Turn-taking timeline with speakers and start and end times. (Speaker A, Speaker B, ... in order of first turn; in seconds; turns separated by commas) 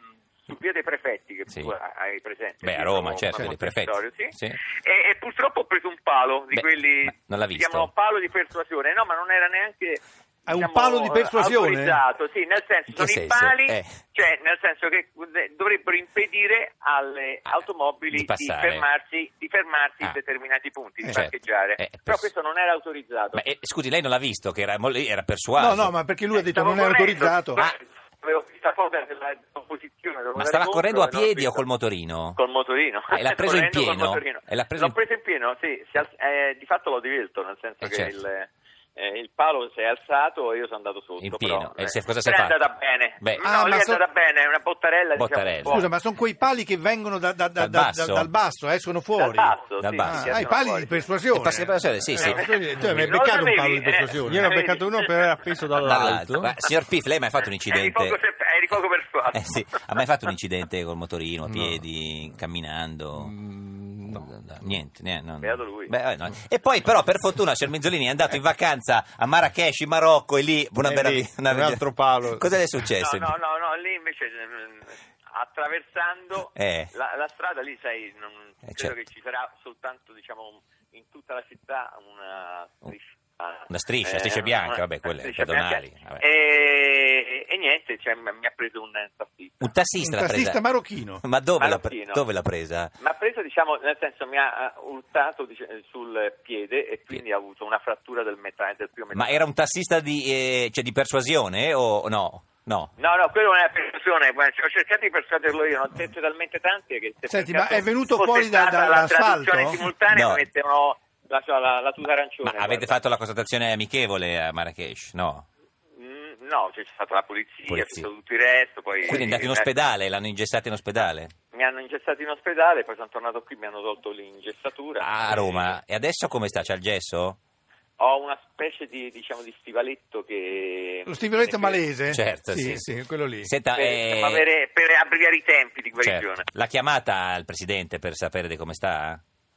Speaker A: 0.4-23.4, Speaker B: 1.5-1.7, Speaker B: 2.6-4.6, Speaker B: 6.5-7.9, Speaker C: 10.5-12.0, Speaker B: 12.9-14.0, Speaker B: 18.1-18.8, Speaker B: 21.1-22.3, Speaker B: 23.3-25.9, Speaker C: 25.6-27.6, Speaker A: 26.3-31.6, Speaker B: 30.4-32.4, Speaker A: 32.4-45.9, Speaker B: 33.1-35.0, Speaker B: 37.8-38.1, Speaker B: 41.2-42.6, Speaker B: 43.2-43.4, Speaker C: 43.4-44.0, Speaker B: 45.2-45.8, Speaker C: 45.7-54.5, Speaker B: 47.6-48.3, Speaker A: 49.1-51.1, Speaker B: 49.8-50.5, Speaker B: 51.3-52.5, Speaker A: 52.2-55.2, Speaker D: 54.2-56.5, Speaker B: 55.8-58.2, Speaker A: 57.7-59.6, Speaker B: 59.3-63.3, Speaker D: 61.5-61.8, Speaker D: 63.2-64.2, Speaker B: 64.0-73.3, Speaker A: 65.4-65.9, Speaker D: 70.8-72.5, Speaker A: 73.0-89.7, Speaker B: 76.5-76.9, Speaker B: 78.6-78.9, Speaker B: 83.7-86.2, Speaker B: 89.6-90.6, Speaker C: 90.0-91.2, Speaker B: 91.2-92.9, Speaker A: 91.6-92.2, Speaker A: 93.0-99.4, Speaker B: 99.1-102.9, Speaker A: 103.0-113.0, Speaker C: 107.3-109.9, Speaker B: 110.1-110.4, Speaker B: 112.4-115.4, Speaker A: 116.0-119.7, Speaker B: 117.7-118.1, Speaker B: 119.0-121.3, Speaker A: 121.5-125.7, Speaker B: 125.0-127.4, Speaker A: 128.0-131.8, Speaker C: 131.1-133.5, Speaker B: 132.1-132.9, Speaker B: 133.4-134.4, Speaker A: 133.7-136.4, Speaker B: 136.0-139.2